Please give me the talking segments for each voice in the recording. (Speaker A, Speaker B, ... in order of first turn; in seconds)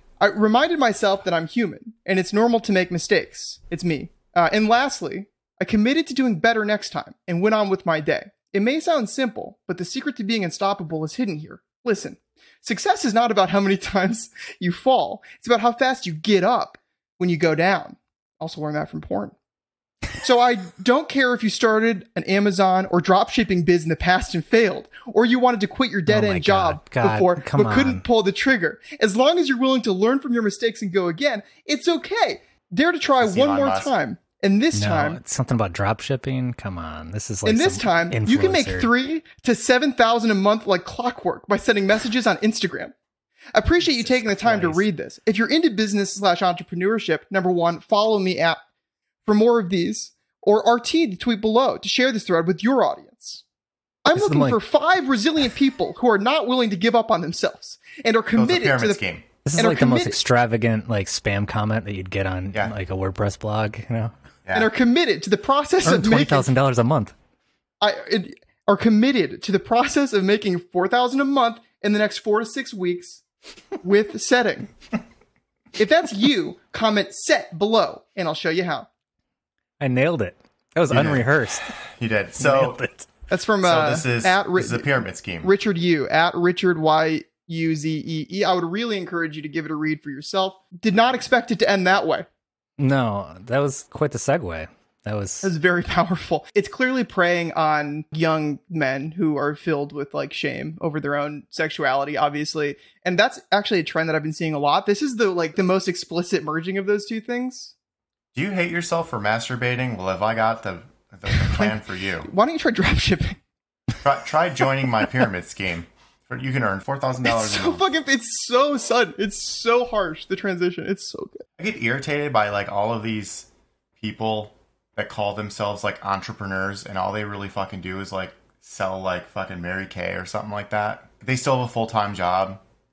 Speaker A: 0.2-19.4, 20.2-35.2, 37.5-42.9, 43.5-48.6, 49.2-53.4, 54.0-59.0, 59.6-60.2, 64.5-66.5, 67.8-73.2, 73.8-74.7, 75.8-78.9, 83.3-92.3, 95.4-107.7, 111.3-113.4, 117.2-121.4
Speaker B: 26.1-28.1, 34.7-38.9, 43.8-44.9, 54.1-54.6, 59.5-64.1, 65.8-67.1, 79.8-81.7, 82.4-83.1, 92.8-95.5
Speaker C: 33.2-33.9, 58.3-59.2, 80.9-82.8, 83.6-85.5, 108.3-112.3, 114.0-117.9, 121.6-132.6